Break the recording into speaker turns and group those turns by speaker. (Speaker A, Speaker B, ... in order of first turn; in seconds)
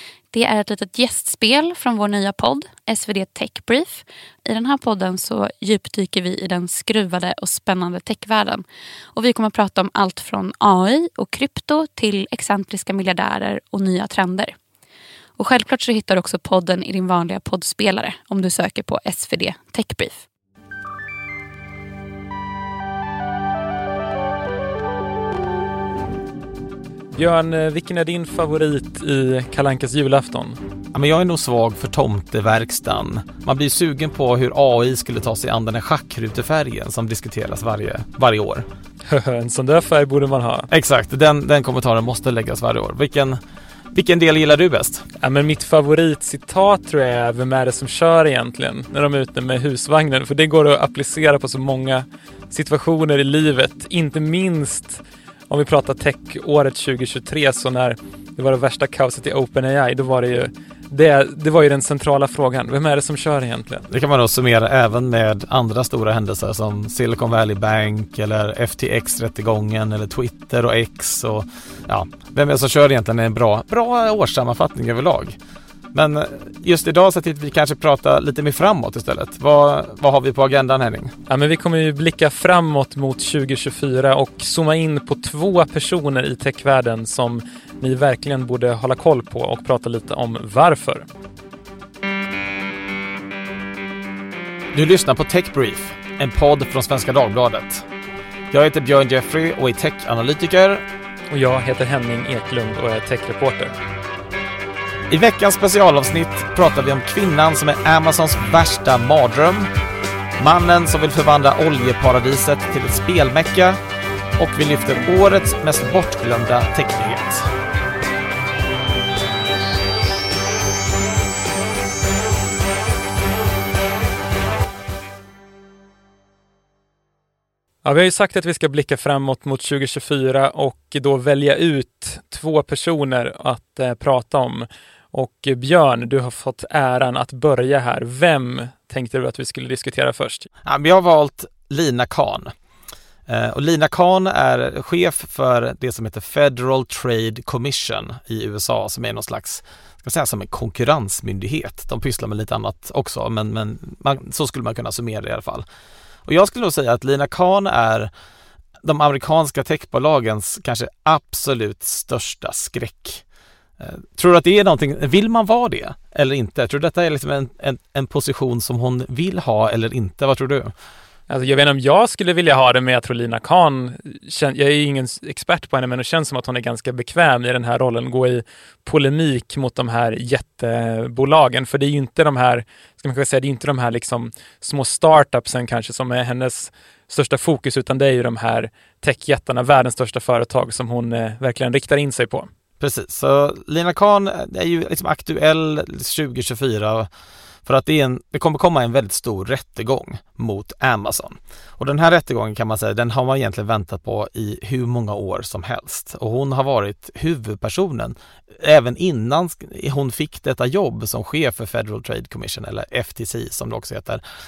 Speaker A: 0.3-14.6, 15.4-20.2
Speaker B: 27.1-30.6, 39.1-40.7, 45.2-63.9, 81.3-91.1, 101.3-103.8, 127.8-140.5, 171.3-192.5
Speaker C: 30.9-38.7, 40.7-43.4, 43.9-45.1, 63.9-75.4, 75.9-81.2, 94.7-97.9, 98.5-100.8, 105.1-109.7, 110.4-113.8, 114.4-117.5, 140.7-142.5, 143.3-155.7, 156.3-158.1, 158.8-163.2, 163.8-170.7, 192.8-197.1, 197.7-214.2